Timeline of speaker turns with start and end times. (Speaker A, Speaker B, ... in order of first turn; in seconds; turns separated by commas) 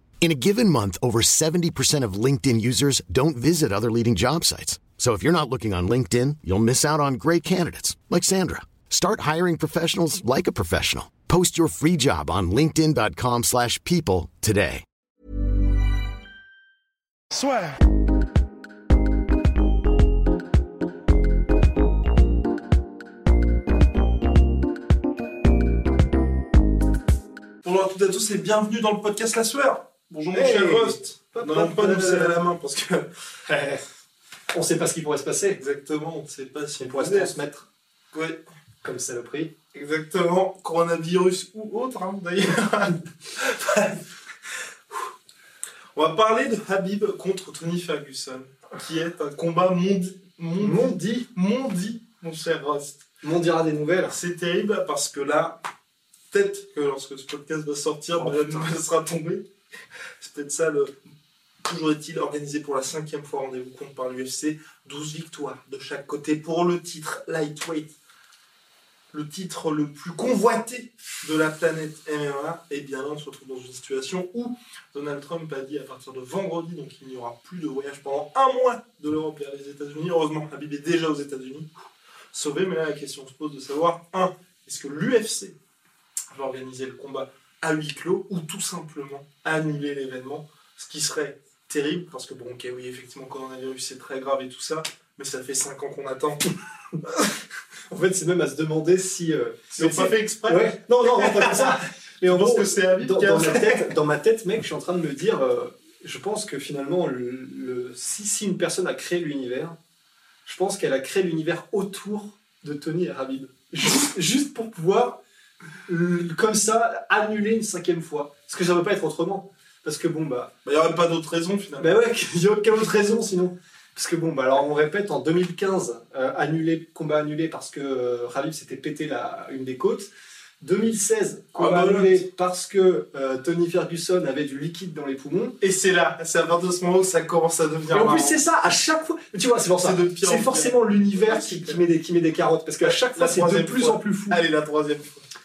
Speaker A: 0.2-14.8, Speaker B: 27.6-33.1, Speaker C: 30.3-32.4, Speaker C: 33.5-33.8, Speaker C: 34.5-35.6, Speaker B: 35.6-37.3, Speaker C: 36.8-37.7, Speaker B: 38.1-38.4, Speaker C: 38.8-39.5, Speaker B: 39.7-44.5, Speaker B: 46.0-53.0, Speaker C: 50.6-51.3, Speaker C: 53.2-54.2, Speaker B: 54.1-55.6, Speaker B: 56.3-59.5, Speaker C: 58.1-58.8, Speaker B: 60.2-60.9, Speaker B: 61.6-67.9, Speaker B: 69.1-81.7, Speaker B: 82.3-85.5, Speaker B: 86.3-96.5, Speaker B: 97.1-97.3, Speaker C: 97.9-109.8, Speaker B: 99.7-103.9, Speaker C: 110.5-115.2, Speaker C: 115.8-120.5, Speaker B: 120.6-122.0, Speaker C: 121.8-135.6, Speaker B: 131.6-132.2, Speaker B: 135.6-138.4, Speaker C: 137.9-144.4, Speaker B: 139.8-141.8, Speaker B: 142.8-145.2